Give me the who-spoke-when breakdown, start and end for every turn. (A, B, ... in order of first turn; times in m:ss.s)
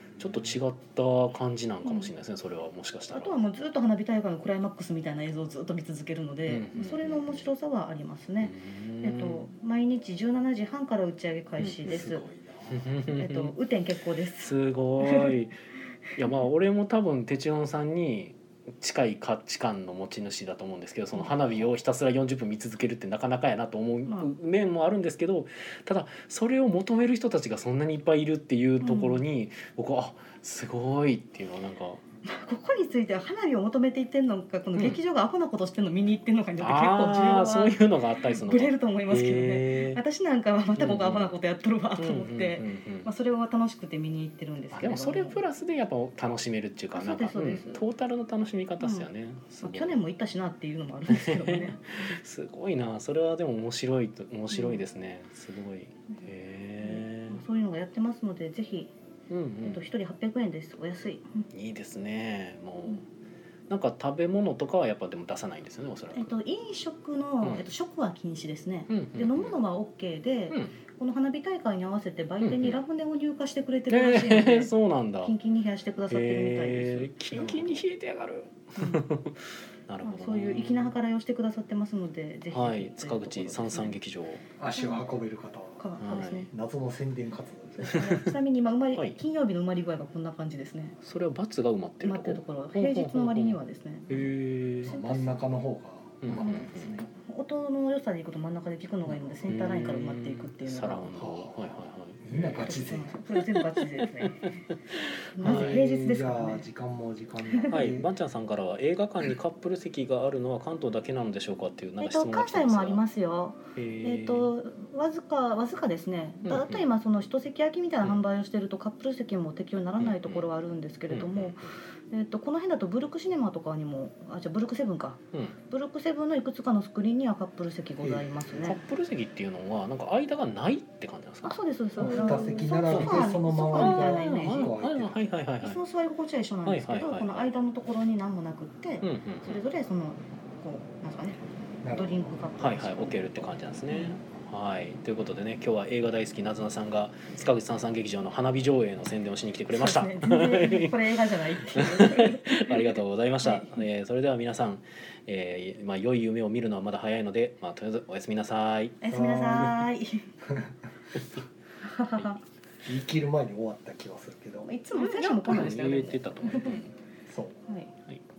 0:00.2-0:03.4 A
0:01.8-0:02.1 B
0:03.1-0:12.3 B
0:06.5-0:07.5 A
0:08.4-0:09.5 A
0:11.6-0:12.2 A
0:11.9-0:12.9 C
0:12.7-0:13.5 A
0:13.1-0:15.4 B
0:14.4-0:15.6 A
0:16.2-0:32.0 A
0:24.1-0:24.3 B
0:28.8-0:29.2 B
0:32.2-0:45.4 B
0:36.6-0:40.0 A
0:40.8-0:41.3 A
0:42.0-0:43.1 A
0:44.7-0:50.0 A
0:46.9-0:47.8 B
0:48.8-0:49.1 B
0:49.6-0:52.1 B
0:51.1-0:57.4 A
0:54.5-0:54.8 B
0:56.8-0:58.9 B
0:59.3-0:59.8 A
0:59.6-1:01.5 B
1:01.5-1:03.0 A
1:03.7-1:06.3 A
1:06.1-1:17.5 B
1:07.4-1:07.7 A
1:08.9-1:09.6 A
1:12.4-1:12.8 A
1:13.9-1:15.3 A
1:16.1-1:20.9 A
1:17.4-1:17.7 C
1:18.8-1:19.0 B
1:20.0-1:24.0 B
1:22.5-1:24.4 A
1:24.6-1:25.8 C
1:24.7-1:25.1 B
1:25.8-1:26.5 B
1:26.0-1:26.5 A
1:26.5-1:28.0 C
1:27.8-1:31.0 B
1:27.9-1:28.3 A
1:28.9-1:29.2 A
1:31.0-1:34.9 A
1:32.0-1:34.3 B
1:34.8-1:35.5 B
1:34.8-1:37.1 C
1:36.2-1:37.0 A
1:36.4-1:41.1 B
1:39.1-1:42.8 A
1:41.2-1:43.1 C
1:42.6-1:44.6 B
1:44.0-1:45.8 A
1:45.4-1:46.7 B
1:45.4-1:48.1 C
1:47.5-1:47.8 B
1:47.7-1:53.0 A
1:52.0-2:08.8 B
1:53.8-1:54.5 A
1:56.4-1:56.8 A
2:00.0-2:00.5 A
2:01.1-2:01.8 A
2:08.0-2:08.7 C
2:08.6-2:15.8 A
2:11.4-2:14.8 B
2:12.0-2:15.2 C
2:15.6-2:24.2 B
2:16.6-2:17.5 A
2:19.0-2:19.6 A
2:21.8-2:22.4 C
2:22.6-2:31.0 A
2:29.7-2:33.8 B
2:31.7-2:39.0 A
2:39.0-2:40.3 B
2:39.1-2:39.8 C
2:41.8-2:42.4 B
2:42.8-2:44.7 C
2:44.6-2:46.8 B
2:44.9-2:46.9 A
2:47.3-2:47.6 C
2:47.7-2:47.9 B